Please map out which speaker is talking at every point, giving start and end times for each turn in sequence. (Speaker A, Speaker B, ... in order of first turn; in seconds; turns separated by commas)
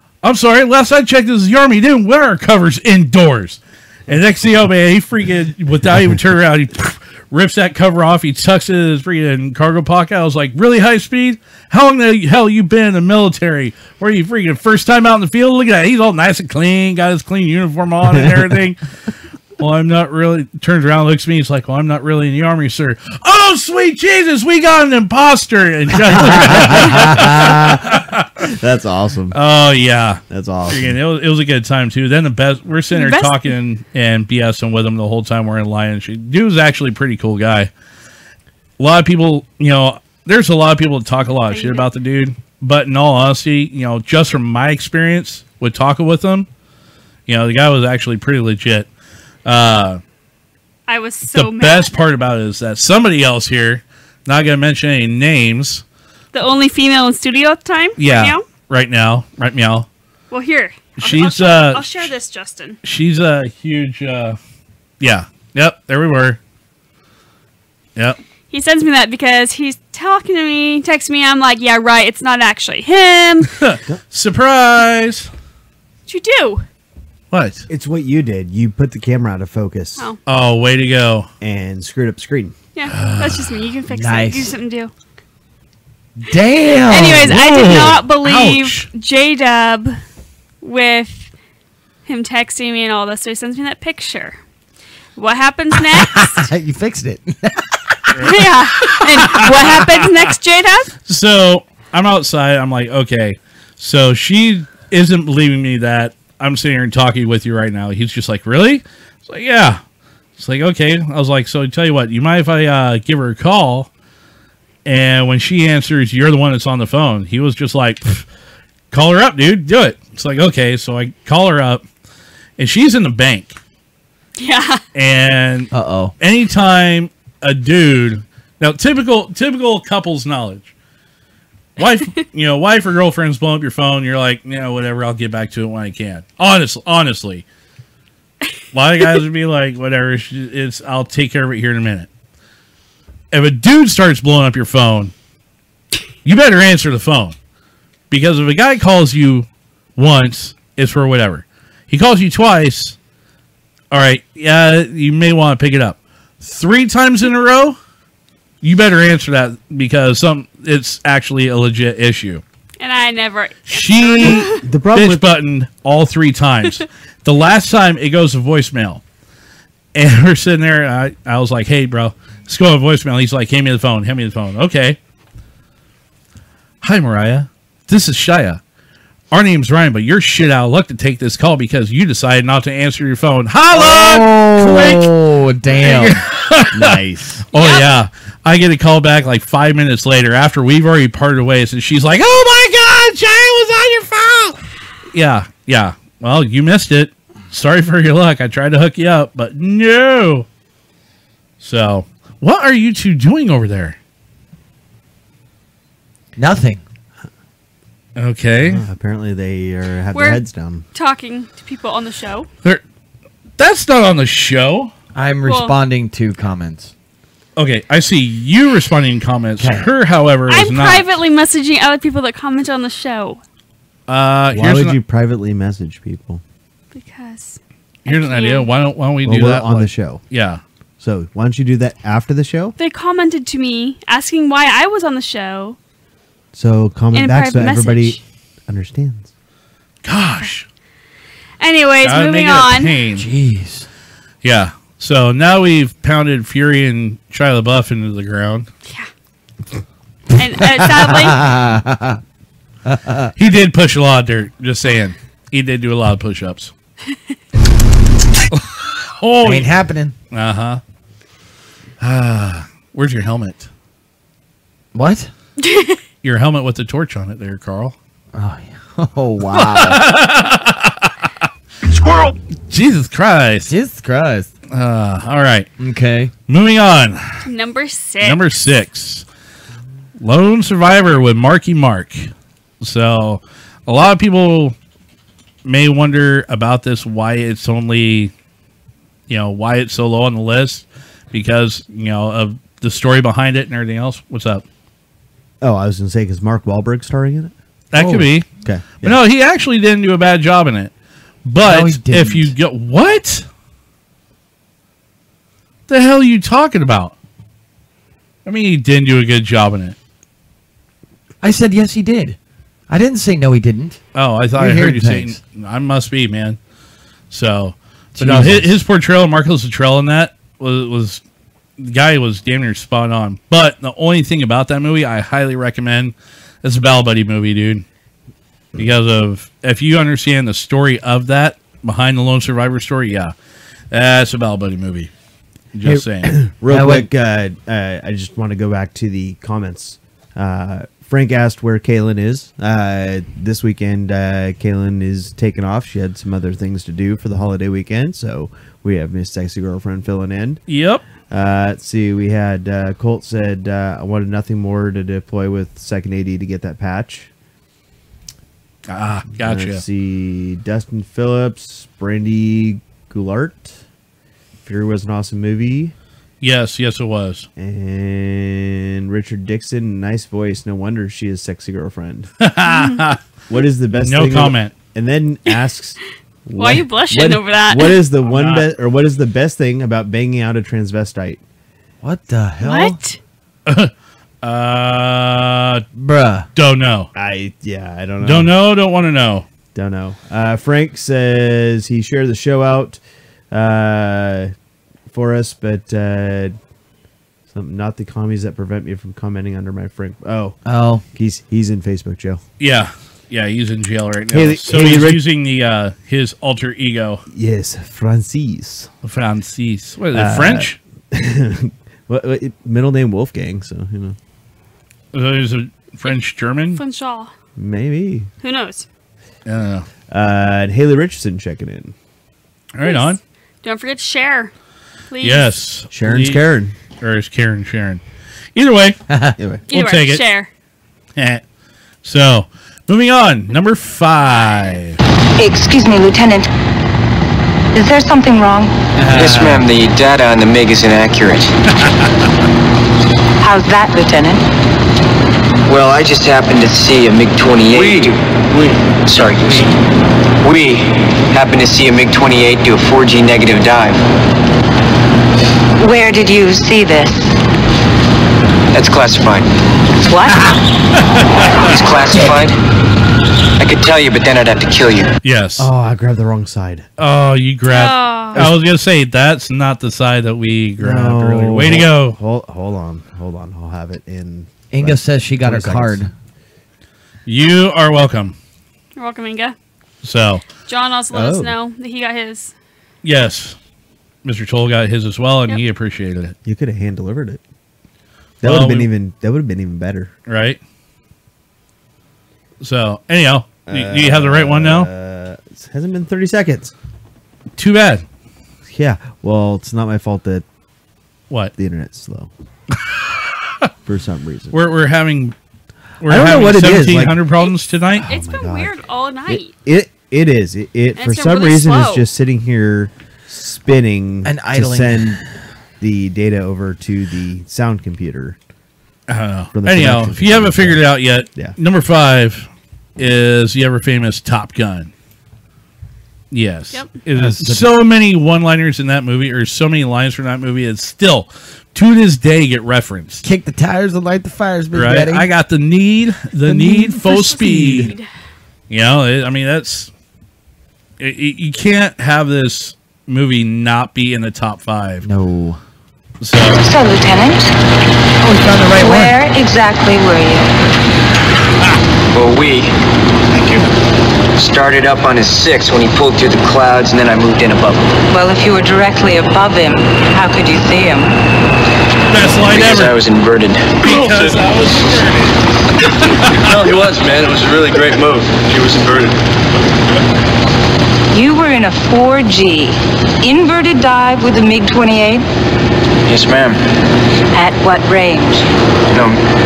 Speaker A: 0.2-18.8, Speaker A: 19.6-28.5, Speaker B: 26.1-27.3, Speaker C: 26.1-29.4, Speaker A: 29.3-37.7, Speaker C: 30.3-30.9, Speaker D: 32.9-33.5, Speaker A: 38.8-46.5, Speaker D: 41.5-41.9, Speaker A: 47.3-48.9, Speaker A: 49.4-50.0, Speaker D: 50.9-51.9, Speaker A: 51.3-55.8, Speaker D: 56.3-58.4, Speaker A: 58.0-59.9, Speaker D: 60.3-62.8, Speaker A: 61.0-62.1, Speaker A: 62.8-64.4, Speaker A: 65.0-66.4, Speaker D: 68.5-73.5, Speaker A: 73.5-75.3, Speaker D: 76.1-76.6, Speaker A: 77.3-77.6, Speaker C: 77.7-80.1, Speaker A: 80.2-81.3, Speaker C: 81.4-82.5, Speaker D: 82.7-84.9, Speaker A: 82.9-83.4, Speaker B: 83.9-84.5, Speaker B: 86.2-88.0, Speaker D: 86.9-90.0, Speaker A: 87.3-88.9, Speaker D: 90.6-91.3, Speaker D: 92.0-94.4, Speaker D: 95.2-96.5, Speaker B: 95.8-98.1, Speaker A: 98.1-100.1, Speaker D: 98.2-100.9, Speaker A: 101.0-109.8, Speaker A: 110.4-113.9, Speaker A: 114.8-118.2, Speaker A: 118.9-121.8, Speaker A: 122.6-123.6, Speaker D: 124.4-124.8, Speaker A: 124.9-130.7, Speaker B: 125.7-126.1, Speaker A: 131.8-137.4, Speaker A: 138.7-142.1, Speaker A: 143.3-145.1, Speaker A: 146.2-147.3, Speaker A: 148.1-152.9, Speaker A: 153.9-157.8, Speaker A: 158.6-162.4, Speaker D: 162.8-164.6, Speaker A: 163.7-169.0, Speaker C: 164.2-165.2, Speaker A: 169.9-175.0, Speaker A: 176.8-178.6, Speaker A: 179.3-185.1, Speaker B: 183.7-186.2, Speaker A: 185.8-187.0, Speaker C: 186.7-187.4, Speaker A: 187.5-194.6, Speaker D: 187.5-187.9, Speaker A: 195.1-200.5, Speaker A: 201.6-204.0, Speaker B: 206.3-206.8, Speaker A: 208.2-208.8, Speaker C: 208.6-210.8, Speaker D: 210.1-210.4, Speaker D: 210.9-212.5, Speaker A: 213.6-214.9, Speaker B: 215.1-216.9, Speaker D: 215.4-215.7, Speaker A: 217.6-221.1, Speaker D: 220.5-223.4, Speaker A: 224.1-225.0, Speaker C: 224.5-226.4, Speaker D: 226.9-228.7, Speaker A: 228.1-230.6, Speaker C: 229.2-230.2, Speaker C: 231.0-232.7, Speaker D: 232.8-235.8, Speaker C: 236.5-239.3, Speaker D: 237.1-238.2, Speaker A: 240.0-240.7, Speaker D: 241.6-242.9, Speaker A: 242.0-243.3, Speaker B: 243.1-243.9, Speaker A: 244.4-248.7, Speaker D: 248.8-249.1, Speaker D: 250.3-251.4, Speaker B: 250.6-252.2, Speaker B: 252.8-253.3, Speaker A: 253.4-256.7, Speaker A: 258.5-259.8, Speaker B: 259.4-260.1, Speaker A: 260.3-260.8, Speaker A: 262.0-263.7, Speaker B: 264.9-265.3, Speaker D: 265.6-266.0, Speaker A: 266.2-267.9, Speaker B: 268.3-270.0, Speaker A: 269.5-271.1, Speaker A: 272.7-273.7, Speaker B: 273.7-274.5, Speaker A: 274.7-275.7, Speaker B: 275.8-276.3, Speaker A: 276.5-277.2, Speaker D: 277.4-278.4, Speaker A: 278.2-279.2, Speaker A: 280.2-282.3, Speaker A: 282.8-284.7, Speaker A: 285.6-288.3, Speaker A: 289.3-294.6, Speaker C: 295.6-297.5, Speaker A: 297.9-298.5, Speaker B: 297.9-298.3, Speaker C: 298.6-299.2, Speaker A: 299.0-300.9, Speaker A: 301.4-303.4, Speaker B: 301.6-302.5, Speaker A: 305.9-307.1, Speaker A: 308.4-309.9, Speaker B: 311.4-312.4, Speaker B: 312.9-314.0, Speaker A: 314.1-316.6, Speaker B: 314.6-315.4, Speaker A: 317.3-321.2, Speaker B: 318.1-318.7, Speaker A: 321.8-327.8, Speaker A: 328.8-333.3, Speaker A: 333.9-335.1, Speaker A: 335.7-336.3, Speaker C: 336.2-350.6, Speaker B: 336.7-337.1, Speaker A: 350.7-351.0, Speaker C: 351.3-357.3, Speaker A: 358.9-359.8, Speaker C: 359.4-363.8, Speaker C: 364.6-365.9, Speaker A: 366.4-367.5, Speaker C: 367.6-372.3, Speaker A: 372.4-373.2, Speaker D: 372.7-373.0, Speaker C: 373.5-381.4, Speaker A: 374.0-374.7, Speaker D: 376.6-378.0, Speaker A: 378.2-378.7, Speaker B: 382.0-383.0, Speaker D: 382.6-383.2, Speaker A: 383.6-383.9, Speaker A: 384.4-385.8, Speaker B: 386.0-386.5, Speaker A: 386.5-387.1, Speaker C: 387.1-388.5, Speaker A: 388.2-389.4, Speaker C: 389.7-393.0, Speaker C: 393.5-394.5, Speaker C: 395.1-396.6, Speaker C: 397.5-400.6, Speaker B: 400.6-401.0, Speaker C: 401.1-402.4, Speaker A: 402.6-407.2, Speaker C: 404.3-405.2, Speaker C: 407.3-408.9, Speaker A: 409.0-410.8, Speaker C: 410.1-414.2, Speaker A: 415.1-416.8, Speaker D: 416.7-417.3, Speaker C: 417.6-418.3, Speaker D: 418.4-418.9, Speaker A: 419.4-419.9, Speaker C: 420.1-421.9, Speaker A: 422.7-423.2, Speaker D: 422.8-424.5, Speaker D: 425.1-425.5, Speaker A: 425.2-426.4, Speaker C: 425.9-426.7, Speaker A: 427.0-428.0, Speaker A: 428.5-429.0, Speaker C: 429.4-429.6, Speaker D: 429.7-430.5, Speaker A: 429.7-430.2, Speaker A: 431.1-431.4, Speaker A: 432.0-435.0, Speaker E: 435.4-436.5, Speaker E: 437.7-438.7, Speaker B: 438.9-439.6, Speaker F: 439.1-441.5, Speaker E: 443.4-444.4, Speaker F: 445.7-448.2, Speaker G: 447.7-448.7, Speaker F: 449.1-449.7, Speaker G: 449.4-449.7, Speaker F: 450.4-454.0, Speaker E: 455.8-457.3, Speaker F: 458.7-459.5, Speaker E: 460.0-460.5, Speaker A: 460.3-461.7, Speaker F: 461.6-462.6, Speaker F: 463.6-465.1, Speaker A: 465.2-465.7, Speaker C: 465.6-466.9, Speaker A: 467.0-472.2, Speaker D: 467.7-468.4, Speaker C: 470.8-476.1, Speaker B: 474.7-476.1, Speaker A: 477.2-478.3, Speaker D: 478.9-479.6, Speaker A: 480.0-480.4, Speaker D: 480.6-482.5, Speaker C: 481.1-481.5, Speaker A: 483.0-483.6, Speaker A: 484.2-486.3, Speaker C: 486.4-487.4, Speaker C: 488.4-490.1, Speaker A: 488.4-488.9, Speaker A: 490.3-490.6, Speaker A: 492.6-494.9, Speaker C: 493.7-496.7, Speaker A: 497.6-498.0, Speaker C: 498.7-500.4, Speaker C: 501.6-502.3, Speaker C: 503.8-504.6, Speaker A: 504.5-505.3, Speaker A: 506.0-508.1, Speaker C: 506.1-507.1, Speaker C: 507.9-508.7, Speaker D: 508.1-509.5, Speaker C: 509.2-515.2, Speaker D: 511.0-512.1, Speaker B: 514.2-515.2, Speaker C: 515.8-518.4, Speaker A: 519.1-524.9, Speaker C: 519.5-521.5, Speaker A: 526.3-533.2, Speaker B: 527.1-527.7, Speaker B: 533.2-535.3, Speaker A: 534.7-537.9, Speaker B: 536.5-537.9, Speaker D: 537.1-538.0, Speaker A: 538.7-539.9, Speaker A: 541.0-545.0, Speaker B: 545.0-545.6, Speaker A: 546.2-546.6, Speaker E: 546.5-547.5, Speaker B: 548.2-549.2, Speaker E: 548.8-550.5, Speaker F: 552.1-552.7, Speaker F: 554.4-557.9, Speaker E: 558.1-561.1, Speaker A: 562.1-563.0, Speaker F: 562.5-563.9, Speaker A: 563.8-565.3, Speaker G: 564.0-564.4, Speaker A: 566.1-566.5, Speaker G: 566.3-569.2, Speaker E: 571.1-575.2, Speaker F: 576.1-576.6, Speaker E: 577.3-578.5, Speaker F: 578.9-579.2